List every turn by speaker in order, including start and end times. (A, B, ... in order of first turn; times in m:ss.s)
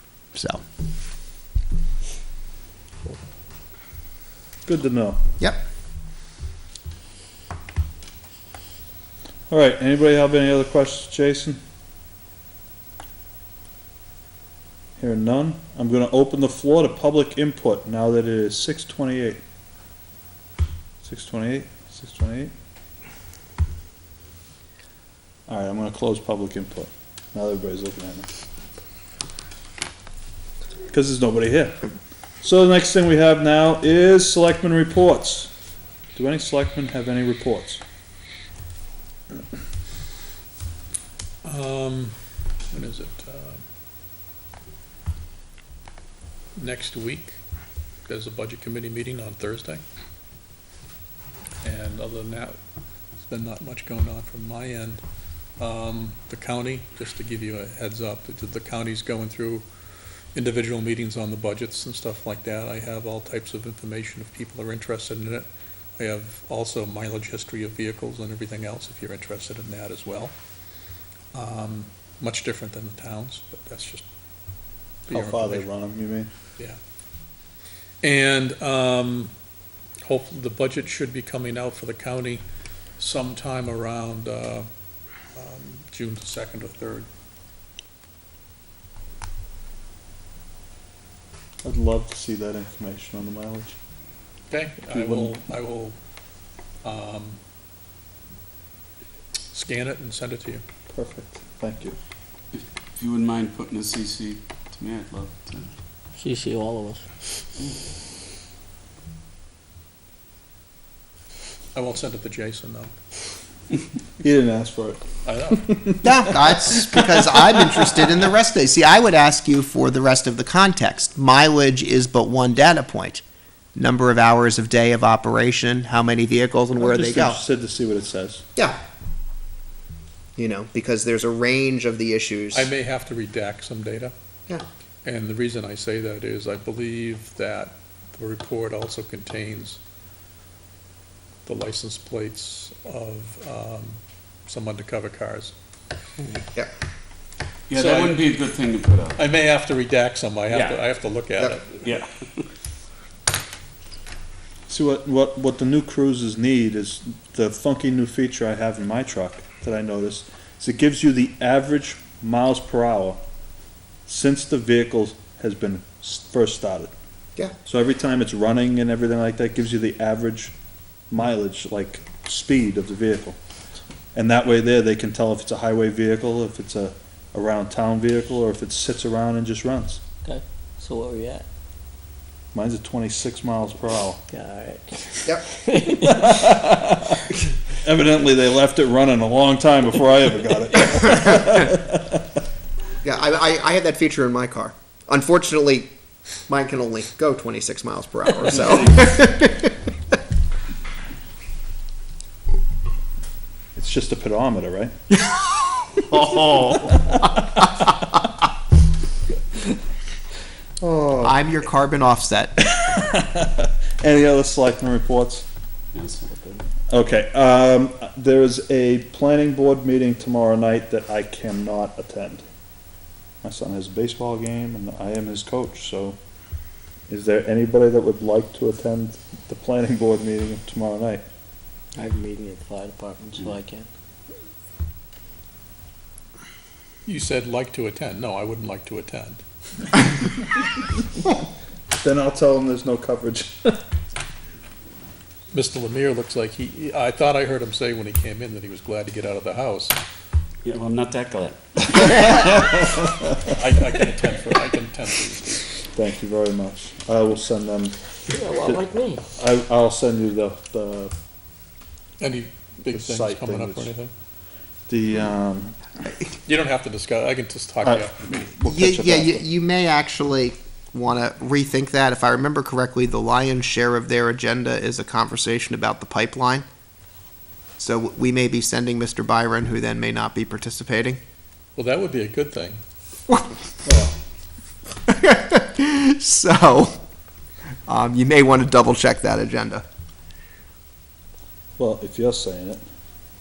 0:00.3-0:00.6 A
0:04.7-0:05.2 B
0:09.5-0:11.6 B
0:15.0-0:19.4 B
0:21.0-0:22.5 B
0:25.5-0:28.3 B
0:30.9-0:31.8 B
0:32.4-0:35.5 B
0:36.2-0:37.8 B
0:41.4-0:43.7 C
0:46.6-0:47.4 C
0:48.0-0:49.8 C
0:51.6-0:52.6 C
0:53.2-0:55.0 C
0:55.6-0:59.7 C
1:00.3-1:10.3 C
1:11.3-1:14.0 C
1:15.1-1:15.7 C
1:15.1-1:16.3 B
1:18.0-1:19.3 C
1:20.0-1:22.4 C
1:23.0-1:24.7 C
1:25.3-1:27.1 C
1:31.6-1:33.8 B
1:34.5-1:36.0 C
1:34.9-1:35.4 B
1:36.8-1:37.4 C
1:39.5-1:40.6 C
1:40.9-1:42.0 B
1:42.5-1:45.7 D
1:46.2-1:47.0 E
1:51.7-1:52.9 C
1:54.2-1:56.8 B
1:55.2-1:55.7 C
1:56.0-2:03.2 A
2:03.8-2:07.4 A
2:06.8-2:08.5 B
2:10.4-2:12.7 A
2:12.5-2:14.1 C
2:15.0-2:19.8 C
2:21.5-2:25.5 C
2:27.7-2:29.2 D
2:27.8-2:28.2 C
2:29.2-2:31.8 C
2:30.5-2:30.8 D
2:31.8-2:32.4 D
2:34.7-2:43.2 B
2:44.1-2:46.9 B
2:47.6-2:50.5 B
2:51.1-2:53.4 B
2:54.2-3:00.0 B
3:00.2-3:01.4 E
3:02.5-3:04.2 B
3:04.3-3:05.0 E
3:05.7-3:06.2 E
3:06.0-3:07.2 B
3:07.8-3:12.2 B
3:13.0-3:15.9 A
3:16.5-3:19.7 A
3:18.5-3:19.1 D
3:23.8-3:25.0 B
3:25.1-3:26.9 A
3:26.7-3:27.4 B
3:30.8-3:31.3 B
3:31.2-3:32.7 A
3:32.7-3:35.5 B
3:35.9-3:36.6 D
3:36.9-3:42.4 B
3:43.4-3:46.2 B
3:47.1-3:51.2 B
3:52.0-3:53.9 E
3:57.0-3:59.4 C
4:02.0-4:03.8 B
4:05.5-4:10.0 C
4:10.6-4:12.4 D
4:12.4-4:13.2 B
4:13.5-4:15.8 C
4:15.9-4:18.0 B
4:18.3-4:19.2 E
4:18.6-4:21.1 B
4:22.2-4:24.1 C
4:22.9-4:23.9 B
4:24.9-4:25.8 B
4:26.4-4:28.5 C
4:27.8-4:29.4 B
4:28.6-4:36.7 A
4:37.8-4:41.2 A
4:41.8-4:42.8 C
4:43.8-4:44.2 B
4:45.1-4:47.0 A
4:47.9-4:49.8 A
4:51.8-4:52.8 B